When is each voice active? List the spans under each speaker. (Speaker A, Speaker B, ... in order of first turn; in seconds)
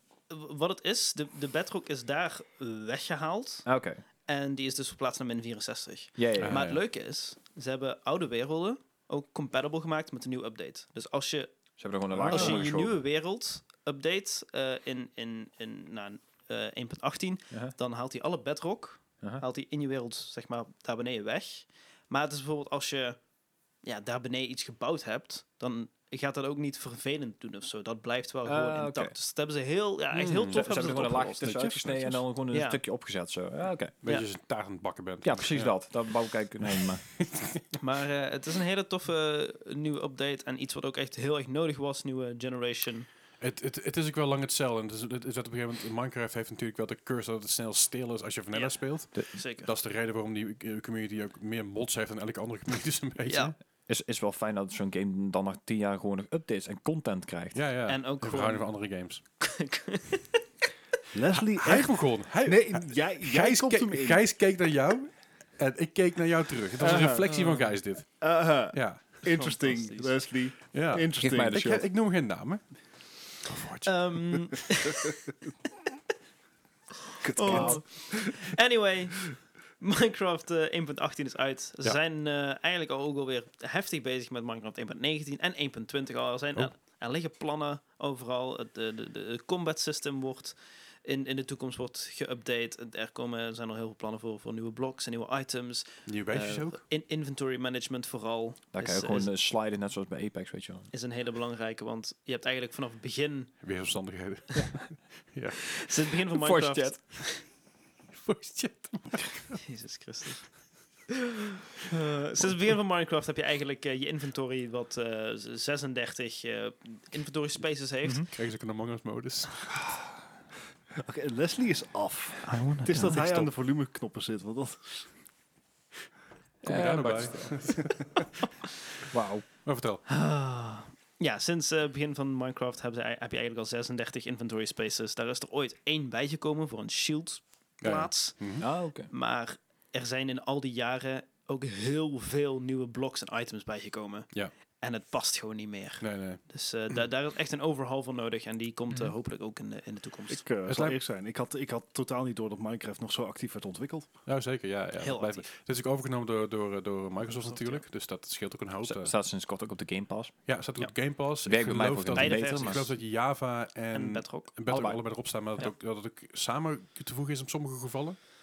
Speaker A: 0.3-3.6, 4.2-11.5, 12.3-23.2, 23.8-31.4, 32.5-32.8, 37.8-43.1, 48.5-49.7, 53.3-53.5, 57.9-58.7, 59.4-60.4, 67.3-67.7, 69.2-70.2, 73.8-75.2, 77.2-99.3, 100.9-103.7, 105.8-107.4, 109.6-110.7, 111.8-118.3, 122.8-123.2, 130.1-150.4, 155.0-155.5, 157.2-157.8, 162.1-162.9, 163.9-164.5
Speaker B: 3.6-4.0, 6.2-6.6, 11.8-13.0, 28.4-29.1, 30.5-33.9, 35.2-37.0, 53.9-57.6, 71.2-71.8, 77.5-77.8, 98.7-100.9, 106.3-107.0, 122.5-123.2, 126.6-127.9, 129.1-129.4, 138.6-139.1, 158.8-160.3, 161.4-162.9, 164.7-165.0
Speaker C: 6.4-6.8, 30.1-30.6, 34.0-35.8, 36.7-37.6, 43.4-53.5, 57.5-59.2, 61.5-69.2, 70.7-74.6, 96.0-96.8, 103.6-105.8, 108.1-109.6, 118.3-119.8, 126.6-128.1, 129.6-130.0, 137.8-138.6, 146.0-146.4, 150.7-150.9, 154.2-159.1, 160.4-168.2
Speaker D: 12.2-12.7, 30.7-32.2, 61.1-64.2, 66.8-67.3, 68.2-71.6, 77.2-78.5, 120.9-125.1, 150.3-154.1